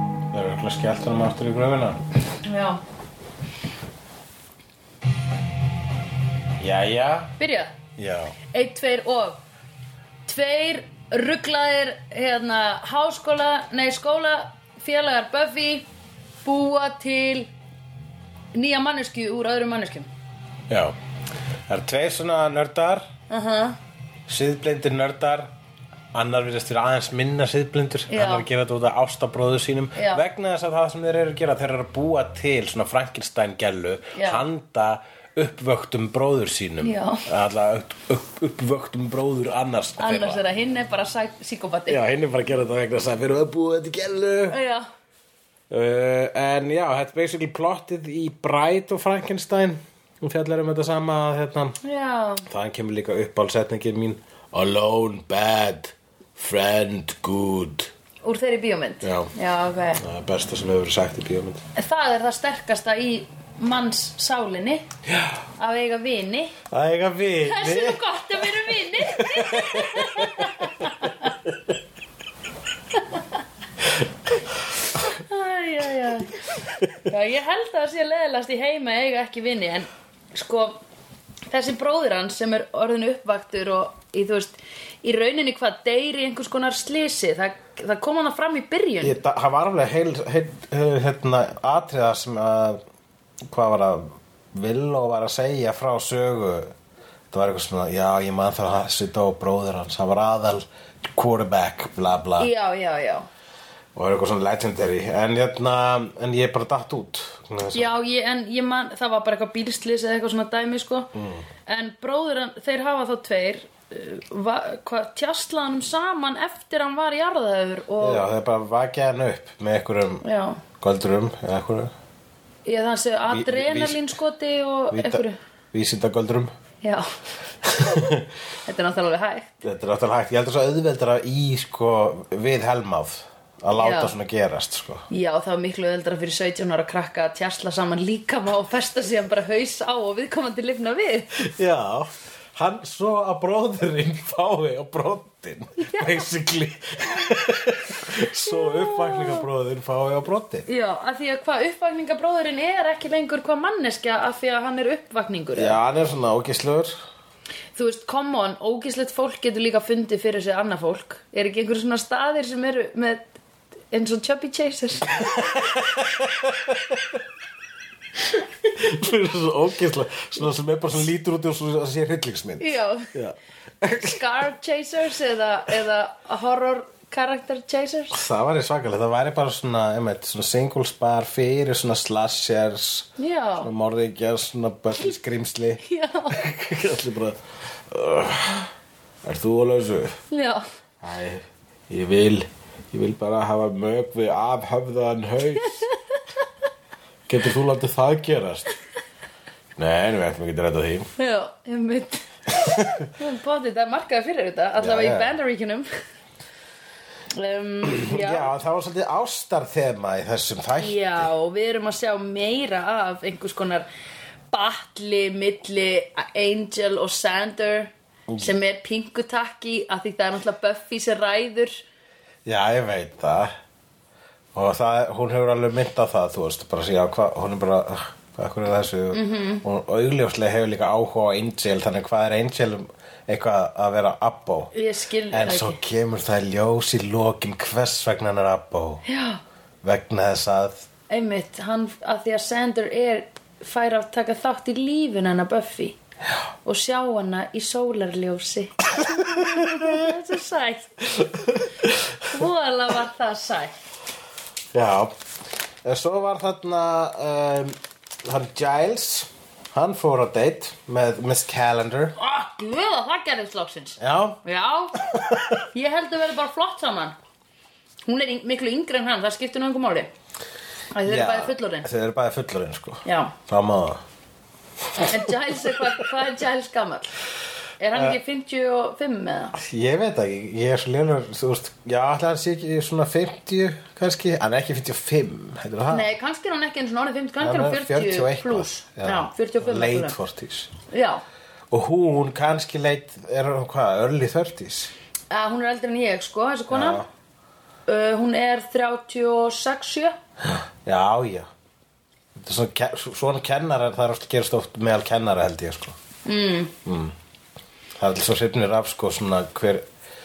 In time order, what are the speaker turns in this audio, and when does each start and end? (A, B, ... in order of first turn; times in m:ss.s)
0:00.3-0:02.0 A
0:02.4-0:02.8 B
0:06.6-0:07.3 A
0:07.4-0:07.8 B
0:08.0-0:08.4 A
0:08.5-0:09.4 B
0:10.3-0:15.8 B
0:16.4-0:17.5 B
0:18.5-0:20.1 B
0:20.7-0:21.0 A
0:21.7-0:23.1 A
0:23.3-0:23.8 B
0:24.3-0:25.5 A
0:26.1-0:40.4 A
0:28.1-0:28.4 B
0:29.9-0:30.2 B
0:34.1-0:34.4 B
0:36.8-0:37.3 B
0:40.0-0:42.0 B
0:41.9-0:44.6 A
0:44.5-0:44.9 B
0:45.7-0:51.8 A
0:51.8-0:52.5 B
0:52.4-0:57.9 A
0:58.2-1:00.0 B
0:59.0-0:59.3 A
1:00.0-1:01.6 A
1:01.7-1:04.8 B
1:05.1-1:05.4 A
1:05.6-1:06.6 B
1:06.7-1:11.1 A
1:07.4-1:11.3 B
1:12.9-1:13.4 B
1:14.9-1:20.8 B
1:21.5-1:29.2 B
1:29.0-1:32.8 A
1:33.5-1:36.7 A
1:37.3-1:42.5 A
1:42.4-1:43.3 B
1:43.9-1:47.9 A
1:47.7-1:51.1 B
1:51.1-1:51.4 A
1:51.7-1:58.2 B
1:58.0-2:00.2 A
2:00.2-2:00.6 B
2:00.8-2:01.9 A
2:02.6-2:05.4 B
2:03.3-2:04.1 A
2:04.9-2:06.6 A
2:06.8-2:07.1 B
2:07.6-2:08.3 A
2:07.6-2:08.1 B
2:08.6-2:09.6 B
2:09.6-2:15.0 A
2:13.8-2:14.1 B
2:15.1-2:21.3 B
2:21.3-2:30.6 A
2:25.8-2:26.2 B
2:28.4-2:29.4 B
2:30.7-2:35.8 B
2:35.5-2:37.0 A
2:37.8-2:43.3 B
2:43.9-2:45.2 B
2:45.1-2:47.2 A
2:48.6-2:54.2 A
2:52.6-2:53.1 B
2:53.9-2:58.2 B
2:58.1-3:08.7 A
3:03.2-3:03.7 B
3:05.8-3:06.4 B
3:09.2-3:10.2 A
3:10.3-3:10.6 B
3:11.0-3:15.8 A
3:15.6-3:16.2 B
3:17.3-3:18.7 A
3:19.8-3:21.1 A
3:21.2-3:25.9 B
3:22.5-3:23.1 A
3:24.8-3:25.3 A
3:27.3-3:28.5 B
3:27.8-3:31.3 A
3:30.8-3:33.9 B
3:34.5-3:41.8 B
3:42.4-3:43.5 A
3:44.5-3:54.7 A
3:49.1-3:49.6 B
3:54.7-3:55.8 B
3:55.3-3:59.0 A
3:59.0-3:59.4 B
3:59.8-4:00.9 A
4:01.1-4:06.0 B
4:06.6-4:11.2 B
4:09.2-4:10.0 A
4:11.2-4:12.2 A
4:12.2-4:13.7 B
4:14.7-4:15.1 A
4:15.8-4:22.2 A
4:22.2-4:25.1 B
4:24.0-4:24.4 A
4:25.0-4:25.6 A
4:25.7-4:27.2 B
4:28.1-4:30.1 B
4:30.9-4:31.9 B
4:31.0-4:34.0 A
4:33.0-4:33.4 B
4:35.0-4:37.1 B
4:37.8-4:39.6 B
4:39.6-4:46.1 A
4:45.9-4:50.2 B
4:47.4-4:50.7 A
4:50.9-4:51.2 B
4:51.7-4:54.9 A
4:55.3-4:57.0 B
4:56.7-4:57.0 A
4:57.9-5:00.2 B
5:00.5-5:01.5 A
5:02.3-5:06.0 A
5:06.2-5:06.7 B
5:06.8-5:07.1 A
5:08.0-5:09.8 A